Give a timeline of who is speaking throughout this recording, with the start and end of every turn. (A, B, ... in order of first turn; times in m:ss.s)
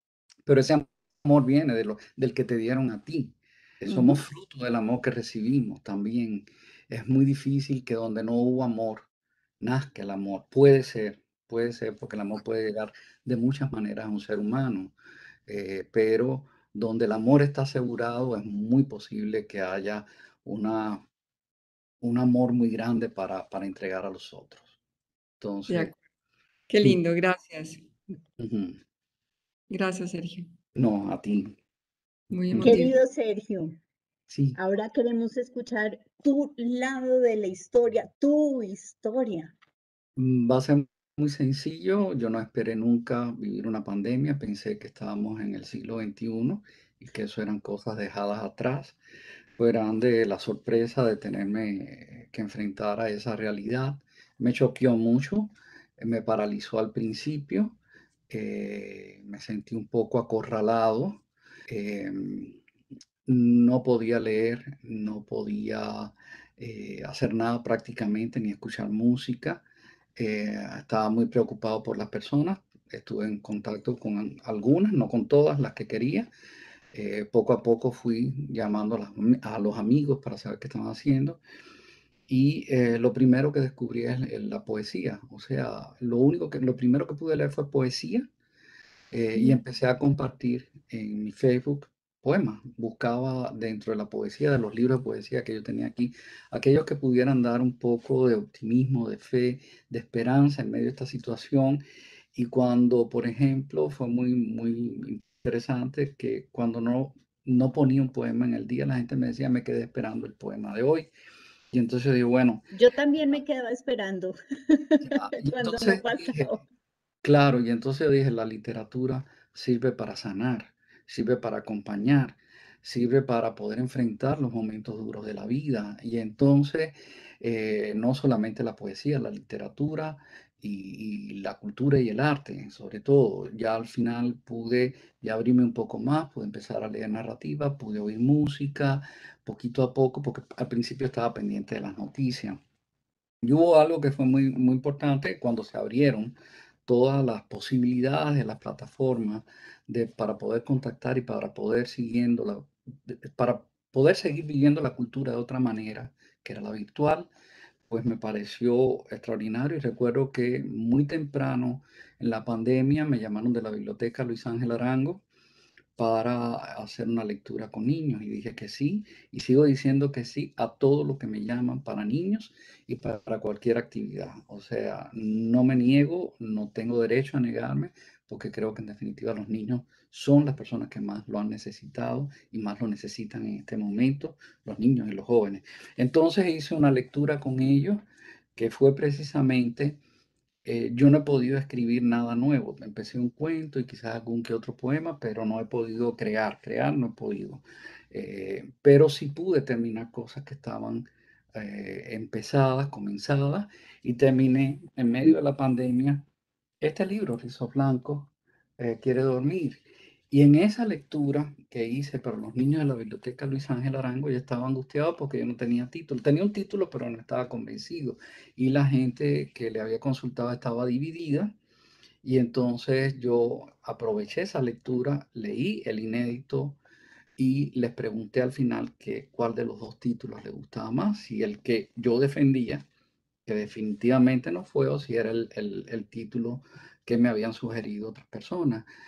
0:00.4-0:09.0 A
0:03.9-0:04.2 B
0:09.6-0:14.9 A
0:15.5-0:21.0 A
0:22.0-0:24.7 A
0:25.4-0:25.9 A
0:25.7-0:26.0 B
0:26.7-0:27.8 B
0:28.4-0:28.8 A
0:29.7-0:30.5 B
0:30.7-0:31.6 A
0:32.3-0:32.9 B
0:32.5-0:32.8 A
0:32.6-0:33.8 C
0:34.3-0:34.6 A
0:34.6-0:39.5 C
0:40.2-0:49.0 A
0:49.6-0:57.8 A
0:58.3-1:02.6 A
1:03.2-1:09.6 A
1:10.2-1:16.3 A
1:16.9-1:21.4 A
1:22.3-1:28.3 A
1:29.1-1:41.8 A
1:42.3-1:51.1 A
1:51.7-1:52.7 A
1:52.7-1:56.6 C
1:55.0-1:56.5 A
1:57.2-2:22.6 A
2:23.4-2:26.3 A
2:26.8-2:37.3 A
2:37.9-2:45.2 A
2:46.0-3:08.0 A
3:08.6-3:10.0 A
3:10.6-3:26.2 A
3:26.8-3:41.6 A
3:42.2-3:46.8 A
3:47.4-3:52.9 A
3:53.4-3:58.9 A